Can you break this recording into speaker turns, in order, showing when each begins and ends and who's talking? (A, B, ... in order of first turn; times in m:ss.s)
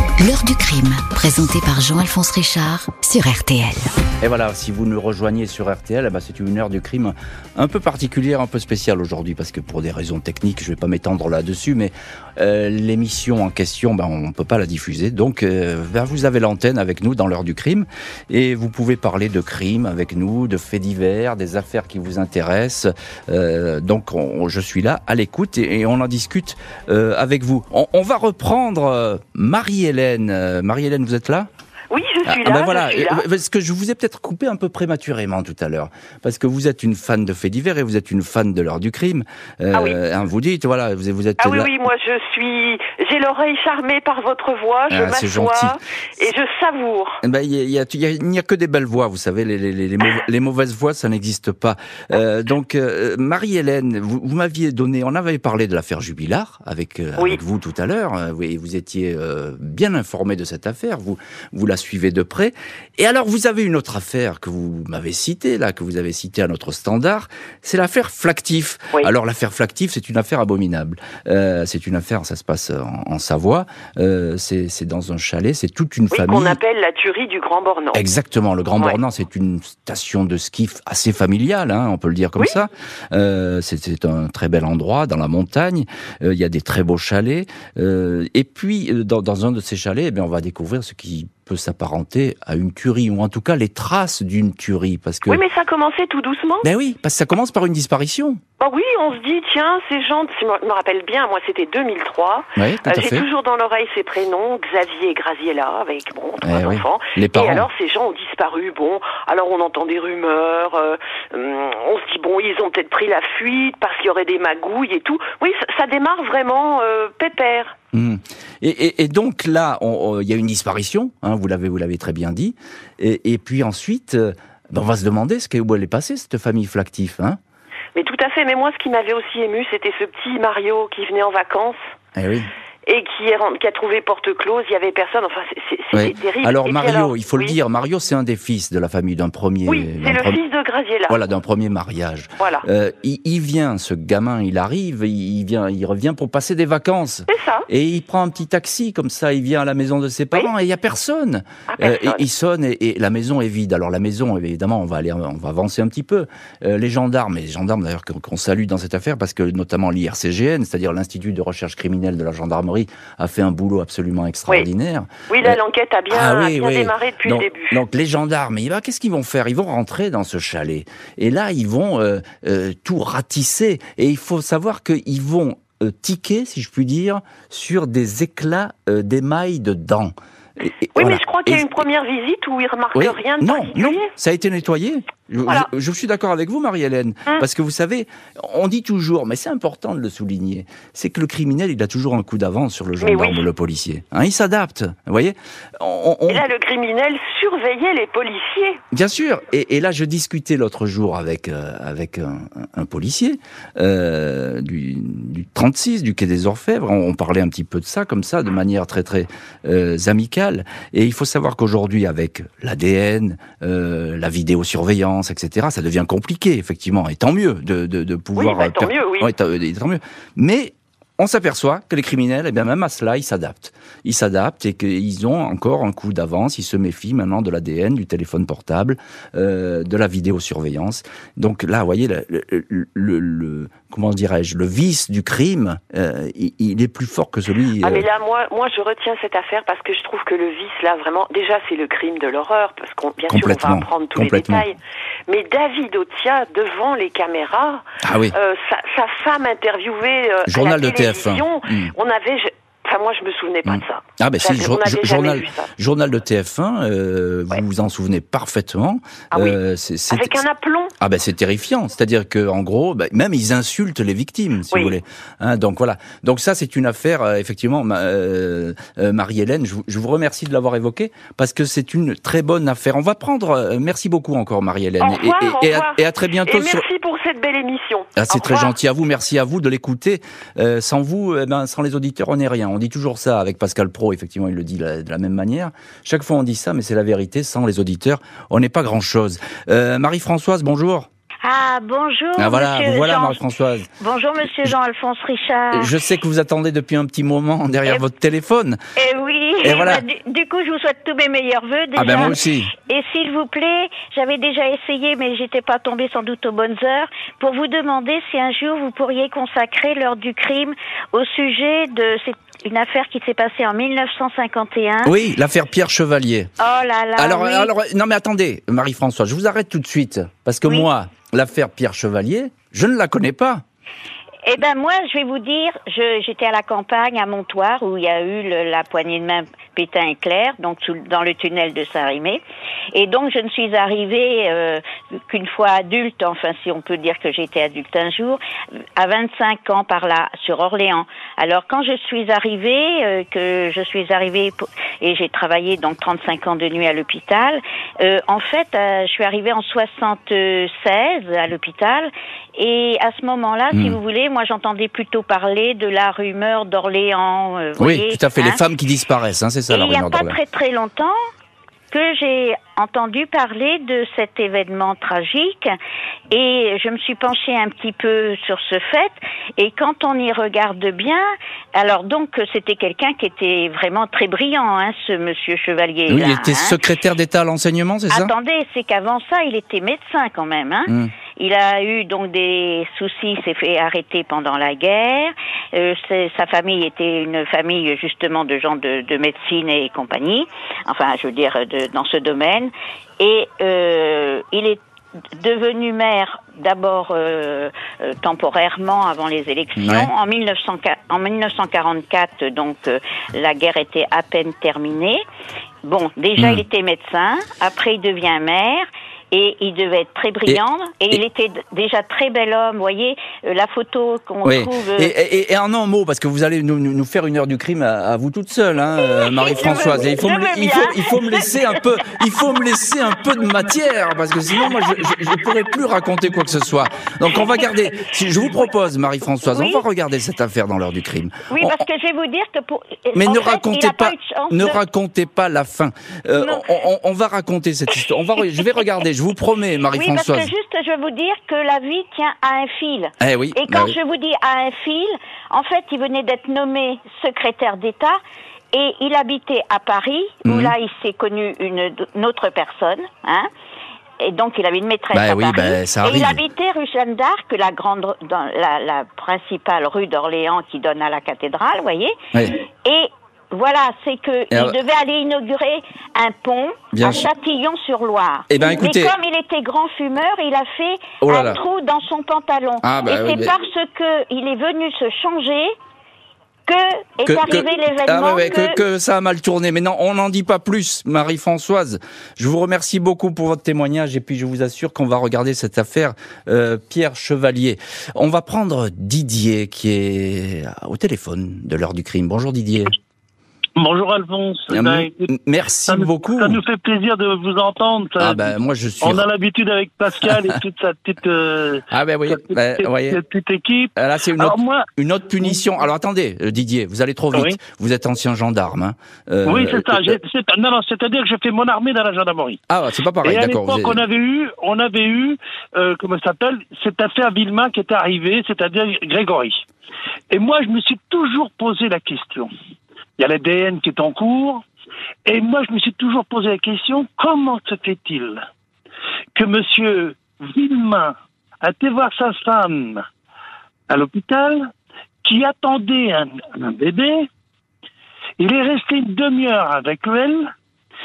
0:00.2-0:03.9 A
0:04.2-0:31.5 B
0:31.9-0:33.2 C
0:32.2-0:41.7 B
0:41.4-0:47.2 C
0:44.9-0:45.8 B
0:47.2-1:16.6 B
1:16.1-1:18.0 C
1:17.9-1:35.4 B
1:35.3-1:36.7 C
1:36.6-1:38.4 B
1:38.6-1:57.8 C
1:42.6-1:43.3 B
1:46.4-1:47.7 B
1:57.9-2:07.4 B
2:08.0-2:11.8 C
2:12.2-2:12.5 B
2:12.9-2:17.6 C
2:15.9-2:20.4 B
2:19.7-2:21.2 C
2:21.1-3:01.8 B
2:22.4-2:22.7 C
2:27.3-2:27.7 C
2:31.7-2:32.2 C
2:45.3-2:47.8 C
3:01.0-3:04.1 C
3:03.0-3:16.5 B
3:13.0-3:13.4 C
3:16.3-3:18.8 C
3:18.9-3:58.1 B
3:38.4-3:39.3 C
3:57.8-4:15.7 C
4:03.3-4:04.6 B
4:08.0-4:08.4 B
4:10.5-4:11.9 B
4:13.7-4:20.4 B
4:19.3-4:19.6 C
4:20.1-4:20.9 C
4:21.0-4:36.9 B
4:35.0-4:38.7 C
4:38.2-4:51.1 B
4:51.4-4:53.4 D
4:52.4-4:53.9 B
4:54.0-4:55.9 D
4:55.7-4:58.8 B
4:59.0-5:15.1 D
4:59.6-5:00.0 B
5:02.0-5:02.7 B
5:15.0-5:16.5 B
5:16.6-5:17.7 D
5:17.2-5:23.6 B
5:24.4-5:32.4 D
5:32.9-5:38.4 D
5:39.0-5:58.6 D
5:53.7-5:54.0 B
5:57.8-6:00.4 B
5:59.7-6:01.2 D
6:01.9-6:05.7 D
6:06.3-6:16.8 D
6:16.1-6:18.3 B
6:18.1-6:34.8 D
6:20.9-6:21.1 B
6:35.4-6:45.2 D
6:39.8-6:40.1 B
6:45.8-6:55.1 D
6:46.4-6:46.6 B
6:50.5-6:51.2 B
6:54.4-7:11.8 B
6:59.0-7:01.5 D
7:09.5-7:09.8 D
7:11.5-7:14.8 D
7:13.2-7:20.5 B
7:16.4-7:16.7 D
7:19.9-7:28.2 D
7:23.2-7:24.0 B
7:28.7-7:33.5 D
7:30.4-7:30.7 B
7:34.2-7:42.2 D
7:35.1-7:36.4 B
7:42.8-7:55.7 D
7:44.5-7:44.8 B
7:46.9-7:47.3 B
7:48.5-7:49.1 B
7:51.2-7:51.6 B
7:52.8-7:53.5 B
7:56.7-7:58.8 D
7:57.2-8:12.9 B
8:13.8-8:15.3 E
8:14.7-8:16.6 B
8:15.9-8:24.9 E
8:18.2-8:19.2 B
8:21.9-8:23.2 B
8:24.0-8:30.2 B
8:27.3-8:27.6 E
8:29.4-8:32.6 E
8:32.7-8:34.0 B
8:33.2-8:39.6 E
8:40.3-8:42.5 E
8:43.2-8:44.6 E
8:45.3-8:48.4 E
8:49.4-8:53.0 E
8:53.9-8:54.7 E
8:55.2-8:57.3 E
8:58.4-9:00.5 E